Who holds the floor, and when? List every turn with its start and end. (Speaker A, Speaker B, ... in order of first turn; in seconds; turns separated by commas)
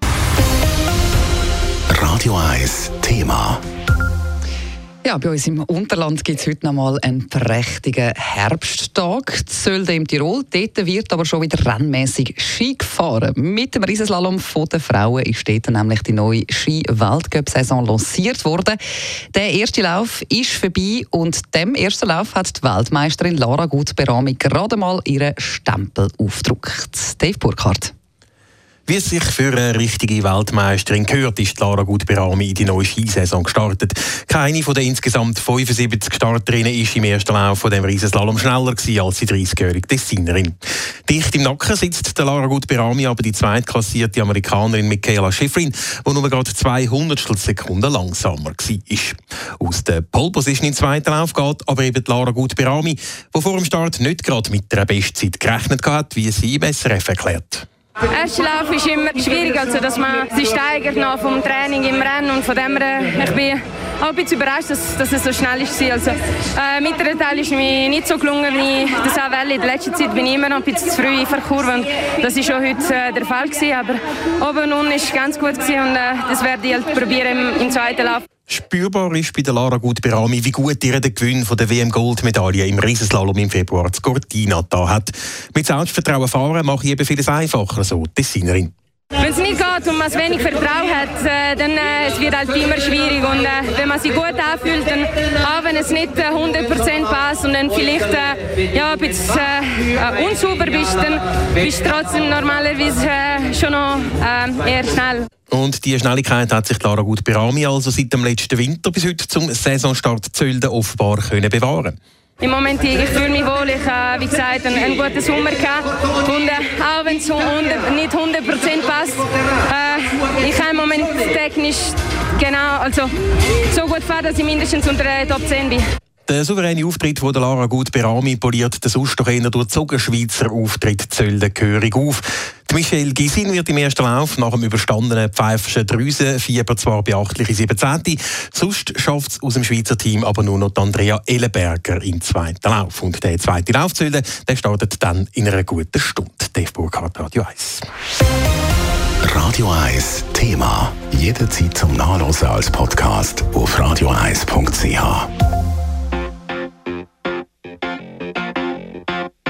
Speaker A: 1.9-3.6, Speaker B: 5.0-18.8, Speaker B: 19.3-27.9, Speaker C: 28.9-40.5, Speaker C: 41.1-57.6, Speaker D: 58.1-78.2, Speaker C: 78.5-88.7, Speaker D: 89.2-105.3, Speaker C: 105.5-112.0, Speaker D: 112.4-123.1, Speaker D: 123.7-125.8, Speaker C: 126.3-147.8, Speaker A: 149.2-155.3